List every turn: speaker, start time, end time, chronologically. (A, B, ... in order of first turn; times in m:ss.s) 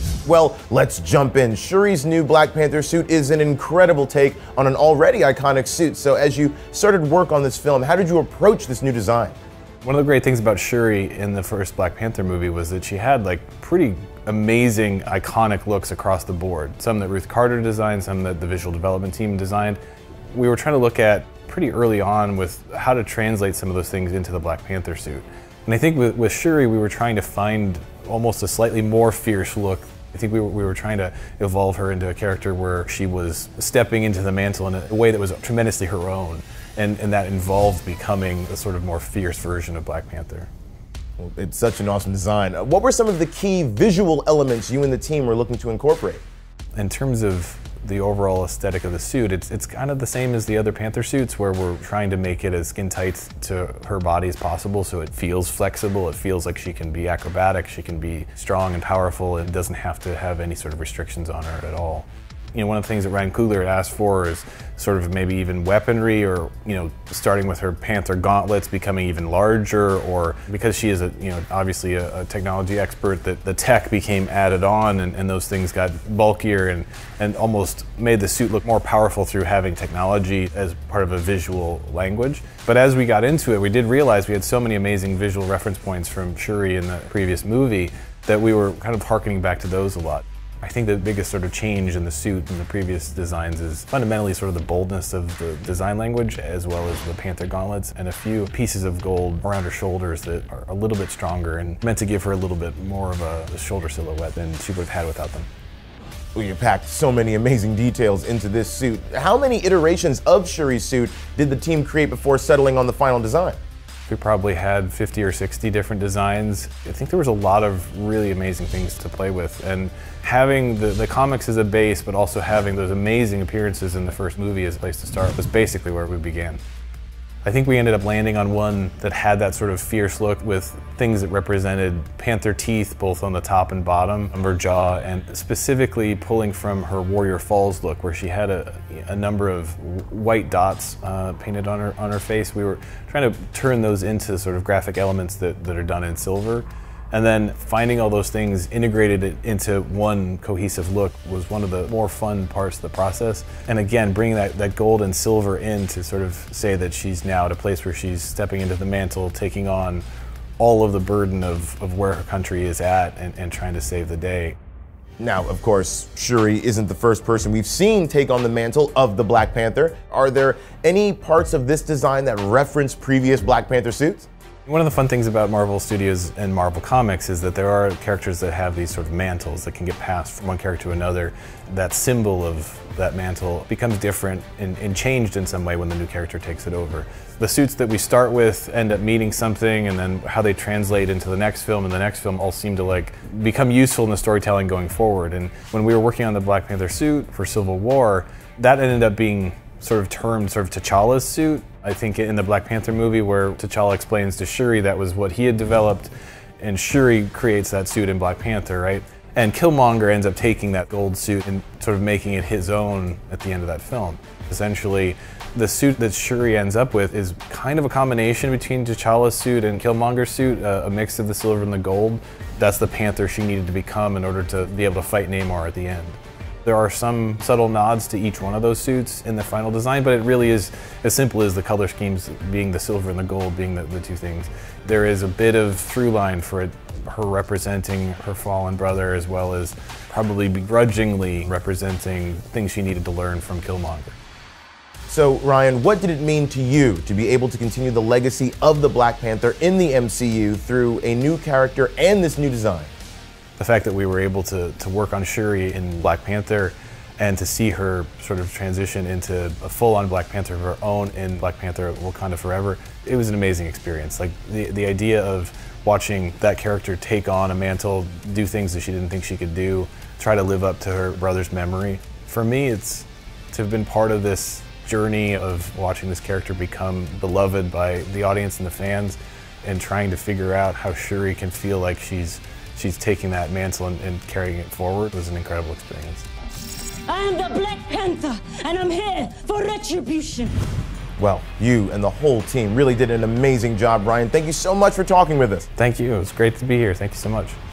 0:00.2-0:09.4 A
0:09.8-0:19.8 B
0:20.3-0:40.5 B
0:41.2-0:46.2 A
0:46.8-1:45.5 B
1:46.3-1:53.6 A
1:54.1-2:06.6 B
2:07.4-2:40.0 B
2:40.6-2:44.6 B
2:45.2-2:54.3 A
2:54.6-4:04.2 B
4:05.1-4:12.9 A
4:13.6-4:46.3 B
4:47.1-4:50.6 C
4:51.2-4:55.7 A
4:55.8-4:57.6 B